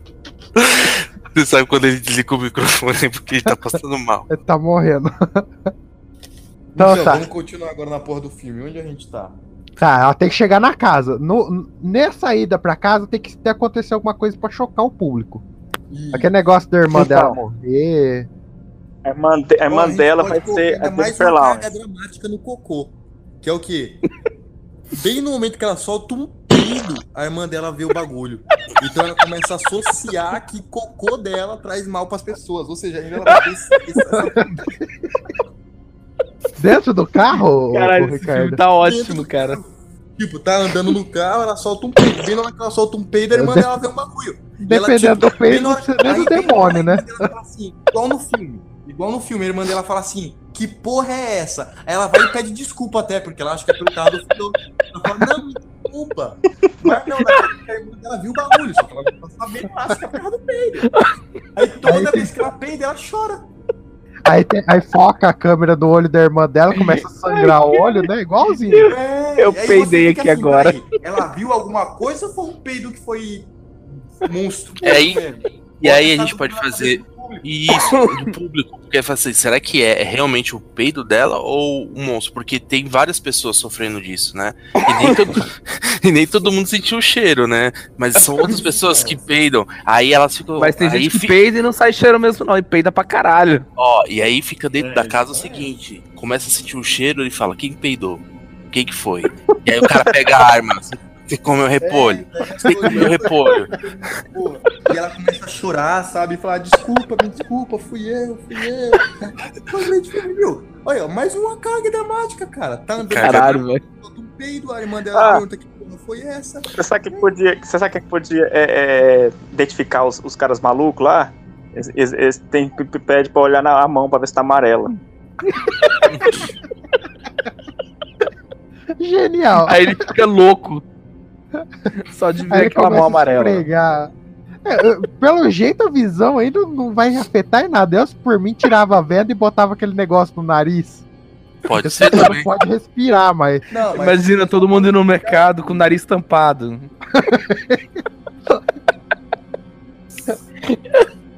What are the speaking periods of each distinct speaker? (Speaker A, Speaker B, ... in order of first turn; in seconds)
Speaker A: 0.6-4.3, 74.8-75.2, 75.8-91.4, 93.8-103.7, 113.0-113.6, 141.7-142.5
Speaker B: 4.3-5.7, 6.8-7.3, 9.8-15.4, 16.1-18.3, 34.2-34.9, 36.6-38.6, 43.3-43.7, 44.6-47.1, 61.9-62.3, 64.3-68.9, 129.0-130.0, 132.5-134.1, 134.7-141.0, 141.8-143.7, 147.1-147.8
Speaker C: 6.8-9.4, 15.9-16.3, 19.7-24.0, 24.9-34.8, 38.8-60.9, 61.6-63.4, 68.9-78.0, 88.5-89.2, 94.8-95.7, 101.8-117.3, 143.7-145.5
Speaker D: 16.9-17.4, 19.1-21.7, 115.1-115.4, 116.8-124.9
Speaker E: 37.7-39.6, 66.8-68.1, 68.7-70.8, 90.6-93.7, 113.2-113.8, 129.7-130.8, 132.1-133.7, 143.9-146.9, 150.7-151.0